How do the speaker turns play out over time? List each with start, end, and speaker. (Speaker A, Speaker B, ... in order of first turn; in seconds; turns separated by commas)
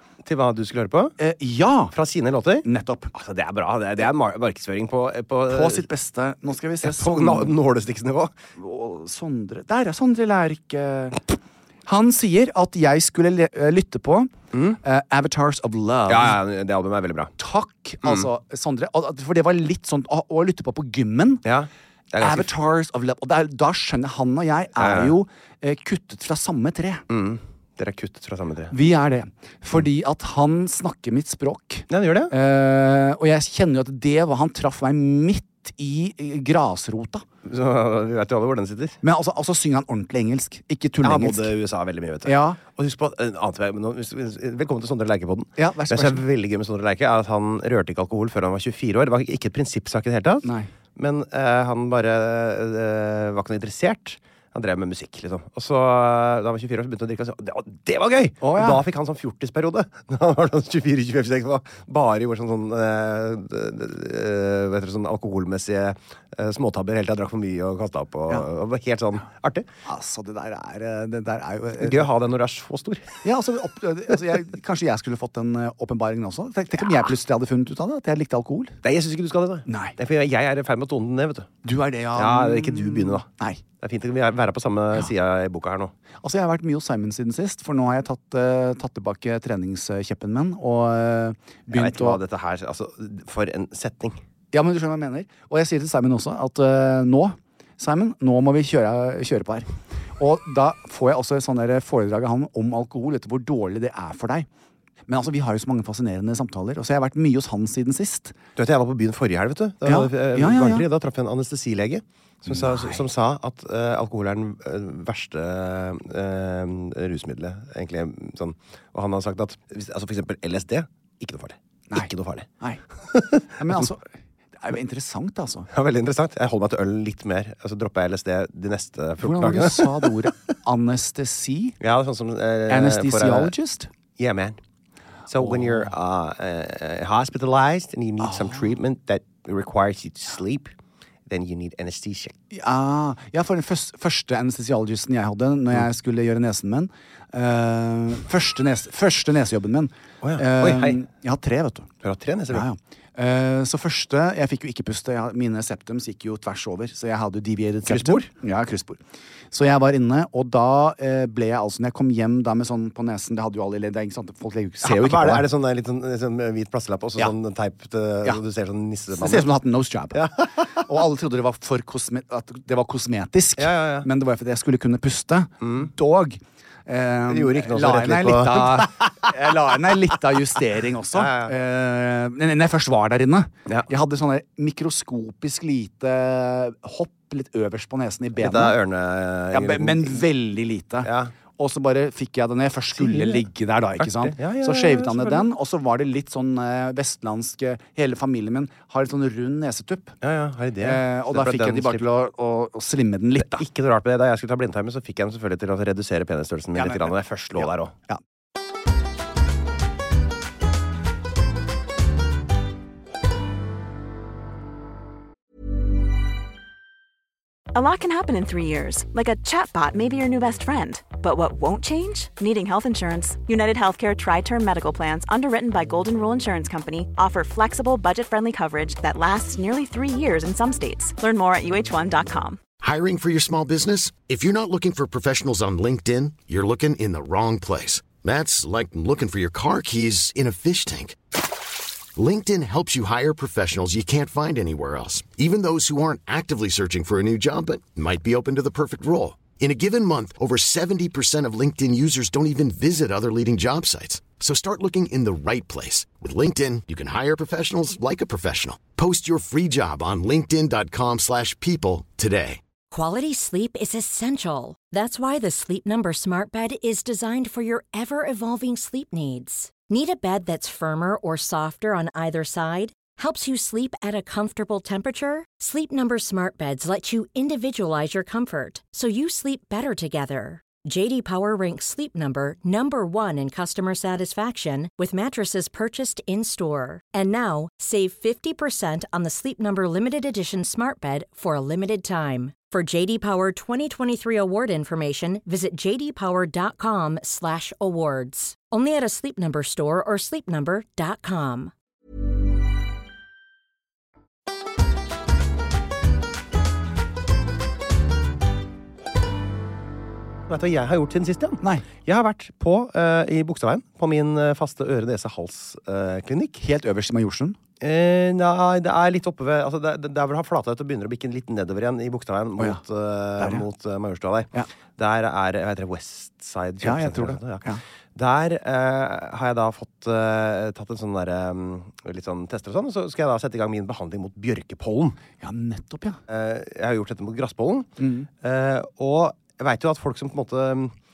Speaker A: 0.2-1.1, Speaker B: 1.2-1.9, Speaker A: 1.9-5.8, Speaker B: 2.6-3.1, Speaker B: 5.5-7.5, Speaker A: 6.8-8.3, Speaker B: 8.6-16.4, Speaker A: 14.5-14.8, Speaker A: 16.1-17.3, Speaker B: 17.4-21.4, Speaker A: 21.4-22.5, Speaker B: 22.2-27.0, Speaker A: 24.8-25.1, Speaker A: 27.1-28.7, Speaker B: 28.7-37.2, Speaker A: 31.9-32.3, Speaker A: 37.4-39.0, Speaker B: 39.0-41.5, Speaker A: 41.0-69.7, Speaker B: 42.2-42.6, Speaker B: 45.6-46.2, Speaker B: 50.4-50.7, Speaker B: 58.4-58.8, Speaker B: 69.8-72.1, Speaker A: 71.8-73.2, Speaker B: 73.2-78.8, Speaker A: 78.8-81.5, Speaker B: 79.7-80.0, Speaker B: 81.6-83.6, Speaker A: 82.1-83.3, Speaker A: 83.8-85.9, Speaker B: 86.2-92.2, Speaker A: 91.7-94.2, Speaker B: 94.5-104.5, Speaker B: 105.1-108.4, Speaker A: 108.5-122.5, Speaker B: 109.8-110.8, Speaker B: 112.5-113.0, Speaker B: 121.9-122.8, Speaker A: 123.1-123.8, Speaker B: 123.5-124.0, Speaker B: 124.6-125.7, Speaker A: 125.7-130.3, Speaker B: 129.2-131.8, Speaker A: 131.8-133.5, Speaker B: 132.7-133.9, Speaker A: 134.2-134.6, Speaker A: 135.3-140.7, Speaker B: 135.4-135.9, Speaker B: 138.2-138.6, Speaker A: 141.3-142.3, Speaker B: 142.5-151.9, Speaker A: 150.2-151.0, Speaker A: 152.0-152.7, Speaker B: 152.5-165.4, Speaker A: 157.9-158.3, Speaker A: 164.8-169.5, Speaker B: 169.1-188.8, Speaker A: 170.1-170.8, Speaker A: 173.6-174.1, Speaker A: 175.6-175.9, Speaker A: 177.3-179.3, Speaker A: 181.1-181.5, Speaker A: 188.4-190.2, Speaker B: 189.5-200.2, Speaker A: 191.0-191.3, Speaker A: 192.9-193.4, Speaker A: 194.0-195.4, Speaker A: 200.2-202.0, Speaker B: 200.8-203.6, Speaker A: 203.4-207.9, Speaker B: 206.7-208.2, Speaker C: 217.7-232.6, Speaker D: 232.8-241.3, Speaker D: 242.2-262.6, Speaker E: 262.9-301.7, Speaker A: 310.5-316.6, Speaker B: 311.6-311.9, Speaker B: 316.6-317.6, Speaker A: 317.8-335.2, Speaker B: 323.4-323.6, Speaker B: 326.8-327.8, Speaker B: 335.4-336.2, Speaker A: 336.3-337.9, Speaker B: 338.0-338.3, Speaker A: 338.4-340.9